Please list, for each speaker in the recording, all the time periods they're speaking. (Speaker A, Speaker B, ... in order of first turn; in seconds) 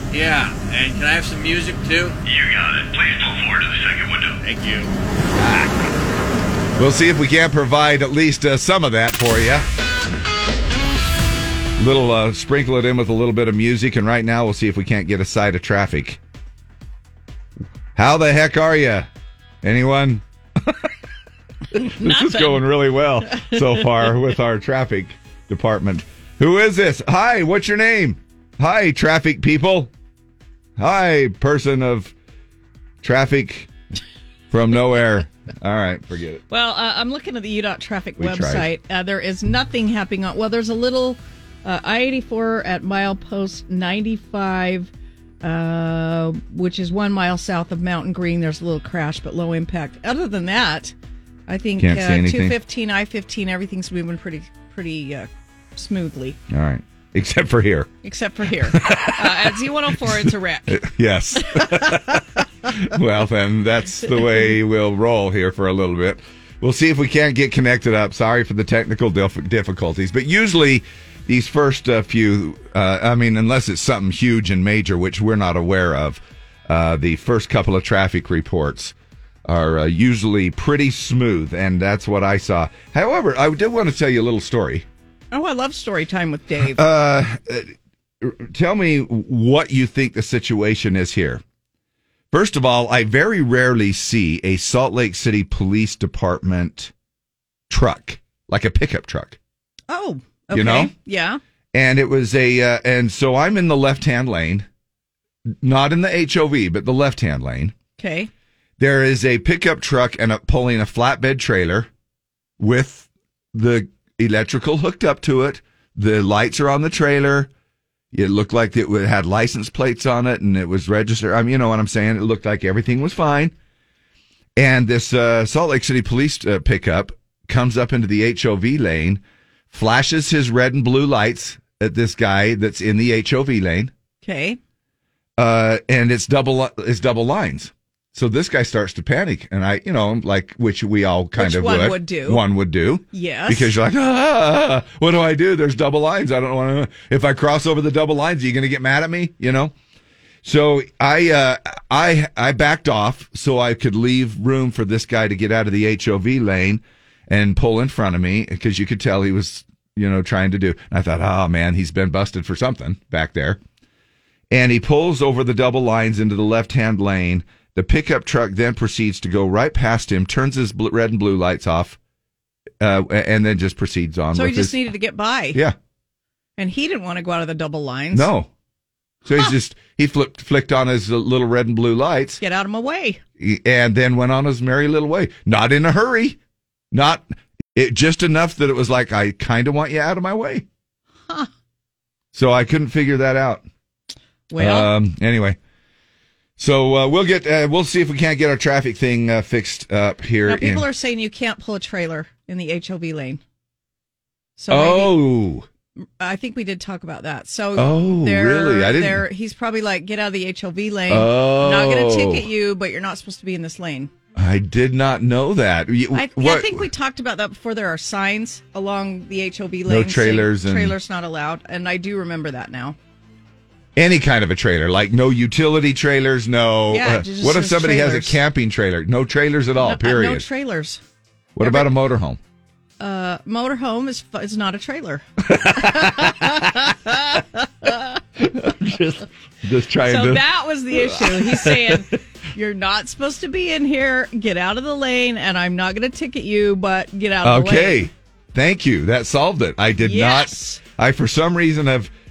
Speaker A: 0.1-2.2, 4.4-4.9
Speaker B: 2.2-4.4
Speaker C: 5.4-5.8, 6.8-9.7, 11.8-16.2, 17.9-19.1, 19.6-20.9, 21.8-29.9, 30.8-32.1, 33.0-33.7, 34.5-36.4, 38.2-38.7, 51.8-52.6, 56.5-57.9, 58.7-84.9, 86.6-91.4, 92.3-96.9, 97.7-99.4, 100.5-100.9, 101.7-104.7, 105.5-107.7, 108.8-111.9, 112.6-117.5, 118.1-123.5, 124.6-133.9, 135.4-149.7, 150.4-163.6, 164.5-172.0, 172.8-174.8, 178.1-178.5, 179.3-182.4, 183.4-186.4, 186.9-187.2, 187.8-190.7, 192.3-193.6, 194.6-195.6, 196.6-200.9, 204.7-205.7, 207.8-209.2, 211.1-212.5, 214.3-216.9, 219.9-221.0, 224.0-230.4, 231.6-232.4, 235.5-236.7, 238.4-242.0, 247.4-252.1
Speaker D: 21.8-22.6, 36.5-44.9, 45.4-51.0, 51.5-56.4, 58.0-60.9, 85.3-86.8, 99.9-101.4, 108.0-108.3, 134.2-134.6, 141.4-142.4, 143.1-143.7, 174.3-175.6, 176.6-178.3, 182.4-183.2, 194.5-194.9, 200.5-203.4, 204.6-205.2, 206.2-214.1, 216.1-223.0, 226.9-228.4, 229.8-231.0, 231.6-231.9, 233.0-235.2, 235.8-237.4, 240.0-248.0, 250.0-250.8